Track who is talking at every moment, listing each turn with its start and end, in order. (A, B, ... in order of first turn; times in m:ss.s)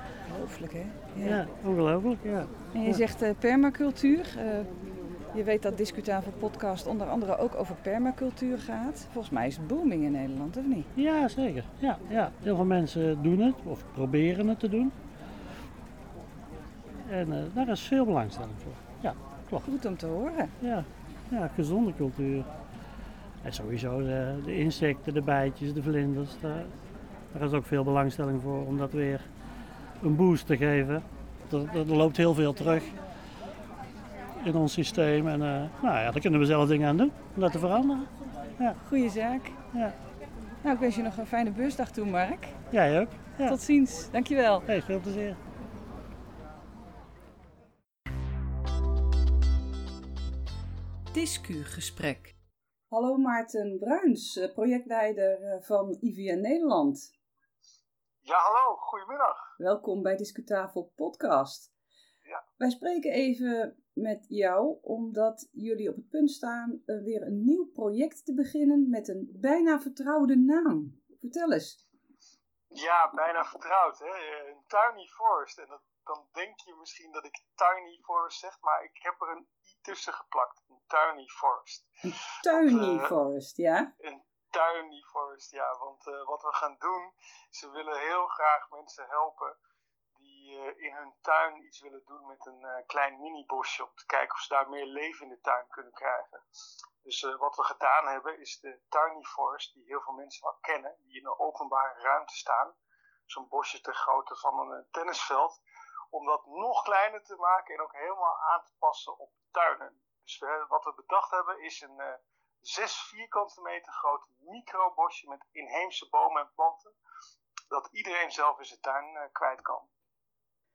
0:00.2-0:01.4 A
0:01.2-0:03.0 B
0:02.7-0:04.7 A
0:05.3-0:10.9 A
0:11.0-0:14.9 B
0:17.0-0:19.7 B
0:19.6-0:20.5 A
0:20.6-0:22.5 B
0:23.4-0:26.8 B
0:27.3-0:29.3 B
0:30.0-0:32.9 B
0:34.4-0:38.8 B
0:38.8-0:39.6 A
0:40.6-0:42.5 A
0:42.7-0:43.6 B
0:43.4-0:44.7 A
0:44.6-0:45.4 B
0:51.1-0:52.3 A
0:52.9-0:57.1 A
0:58.2-0:59.4 C
0:59.6-1:01.7 A
1:02.6-1:11.8 A
1:12.7-1:21.9 C
1:22.4-1:23.9 A
1:22.5-1:23.1 C
1:24.0-1:29.6 C
1:30.2-1:36.4 C
1:37.0-1:42.7 C
1:43.3-1:45.6 C
1:46.1-1:56.9 C
1:57.7-1:59.9 C